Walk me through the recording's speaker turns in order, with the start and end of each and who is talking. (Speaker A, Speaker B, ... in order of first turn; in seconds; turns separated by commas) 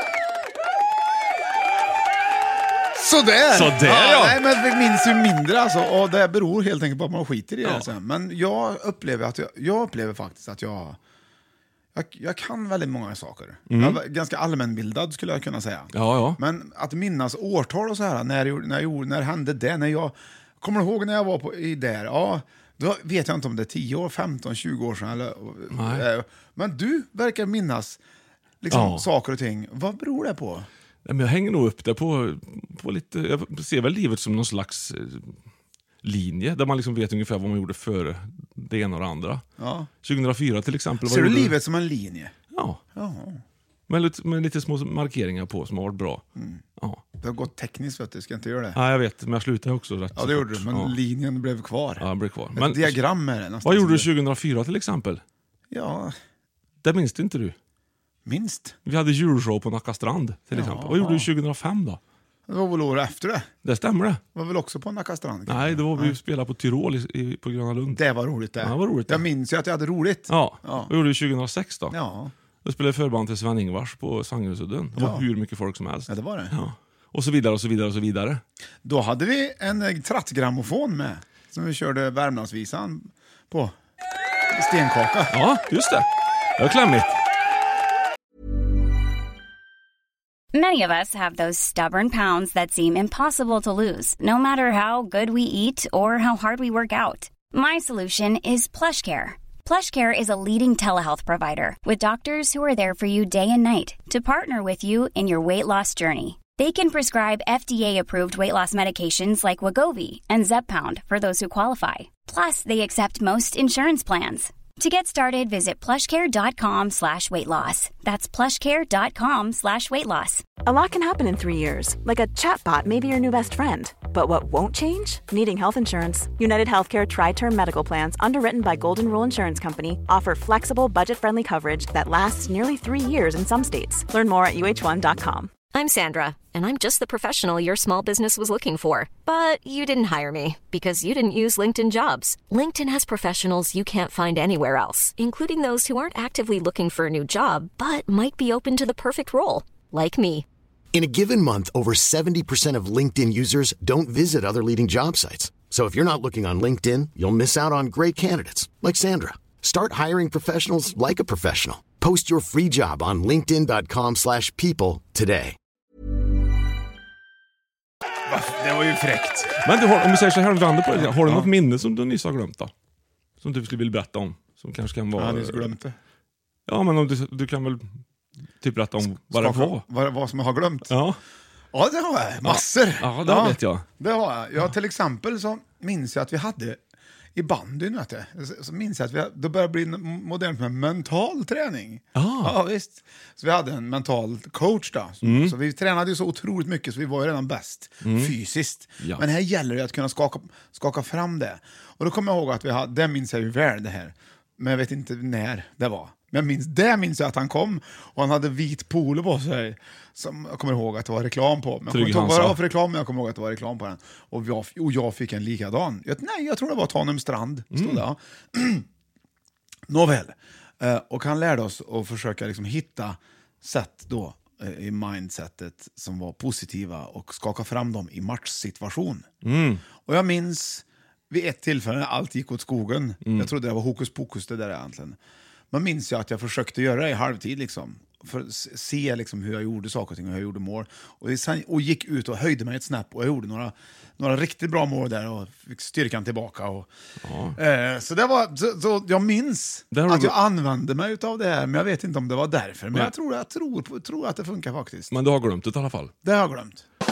Speaker A: 3.0-11.0, Speaker B: 3.5-4.4, Speaker B: 7.6-7.9, Speaker A: 11.9-28.0, Speaker B: 13.7-14.0, Speaker B: 15.9-16.4, Speaker B: 25.7-26.1, Speaker A: 28.6-30.7, Speaker B: 28.7-29.1, Speaker B: 31.1-35.3, Speaker B: 36.0-39.4, Speaker A: 39.6-39.9, Speaker B: 40.0-41.6, Speaker A: 41.0-42.3, Speaker B: 42.5-42.8, Speaker A: 42.9-43.4, Speaker B: 43.9-46.2, Speaker A: 46.4-46.6, Speaker A: 47.2-48.8, Speaker B: 48.8-51.0, Speaker A: 50.1-54.1, Speaker B: 52.0-53.0, Speaker B: 53.6-55.2, Speaker A: 55.7-56.1, Speaker B: 56.8-57.5, Speaker A: 58.2-58.8, Speaker B: 58.9-62.0, Speaker A: 60.5-61.3, Speaker A: 62.5-63.5, Speaker B: 63.6-64.2, Speaker A: 64.3-66.2, Speaker B: 65.5-68.0, Speaker A: 68.0-71.0, Speaker B: 68.6-69.3, Speaker B: 70.3-72.0, Speaker A: 71.9-72.3, Speaker B: 72.6-78.4, Speaker A: 75.0-75.3, Speaker A: 76.1-76.6, Speaker A: 78.8-83.7, Speaker A: 84.5-85.4, Speaker B: 85.3-86.1, Speaker B: 86.6-87.2, Speaker C: 90.5-120.4, Speaker D: 120.7-135.5, Speaker E: 135.7-150.4, Speaker F: 150.9-165.6, Speaker A: 168.3-169.5, Speaker B: 169.6-172.7, Speaker A: 170.9-171.5, Speaker B: 173.4-175.7, Speaker A: 175.2-176.0, Speaker B: 176.7-177.9, Speaker B: 178.6-179.8, Speaker A: 179.3-180.9, Speaker B: 180.9-181.2, Speaker A: 181.7-186.8, Speaker B: 182.4-183.8, Speaker A: 187.3-218.9, Speaker B: 192.2-192.6, Speaker B: 195.2-195.6, Speaker B: 198.0-198.3, Speaker B: 211.9-212.6, Speaker B: 217.7-218.0, Speaker A: 219.9-229.3, Speaker B: 229.4-229.8, Speaker A: 230.0-235.2, Speaker B: 233.2-233.5, Speaker A: 235.7-246.9, Speaker B: 247.2-247.6, Speaker A: 247.6-255.1, Speaker B: 249.9-250.4, Speaker B: 255.1-256.1, Speaker A: 256.2-256.8